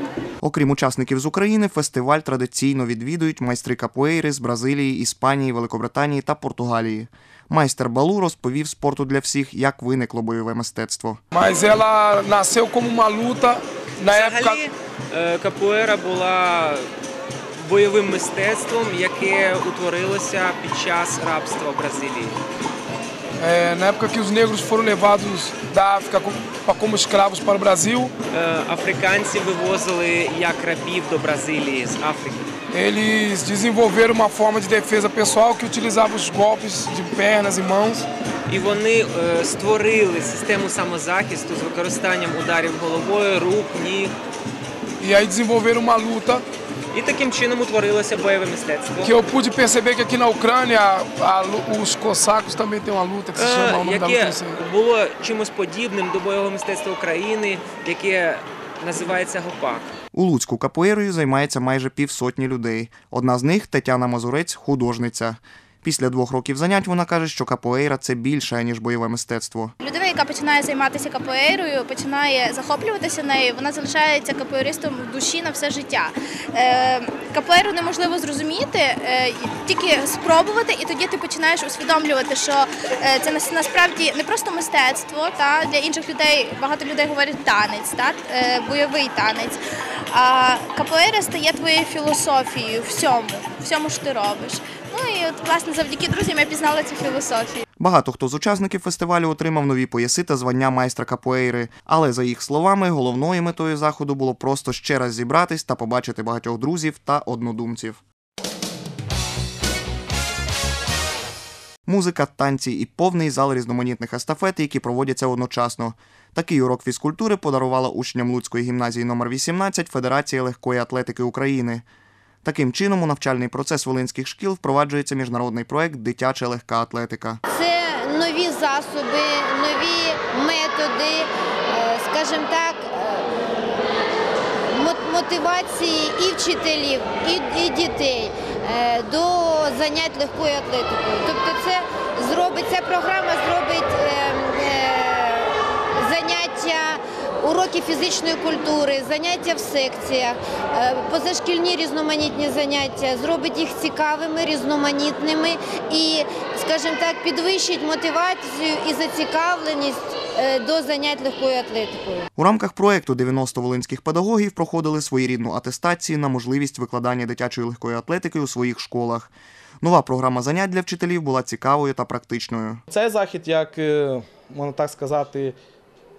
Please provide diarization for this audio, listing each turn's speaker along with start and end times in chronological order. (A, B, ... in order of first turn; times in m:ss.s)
0:00.4-0:11.2 A
0:11.4-0:14.6 B
0:14.1-0:16.9 C
0:17.6-0:22.4 C
0:23.4-0:28.1 B
0:28.3-0:32.5 C
0:32.8-0:38.0 B
0:38.5-0:44.1 C
0:45.0-0:46.4 B
0:46.9-0:49.1 C
0:49.0-0:54.6 B
0:53.4-0:59.9 C
1:00.1-1:09.7 A
1:09.8-1:29.6 D
1:30.1-1:37.6 D
1:37.8-1:48.0 A
1:51.9-2:01.8 A
2:02.4-2:07.4 A
2:07.5-2:13.7 E
2:14.7-2:42.3 E
2:42.4-2:52.8 A
2:52.9-2:55.5 F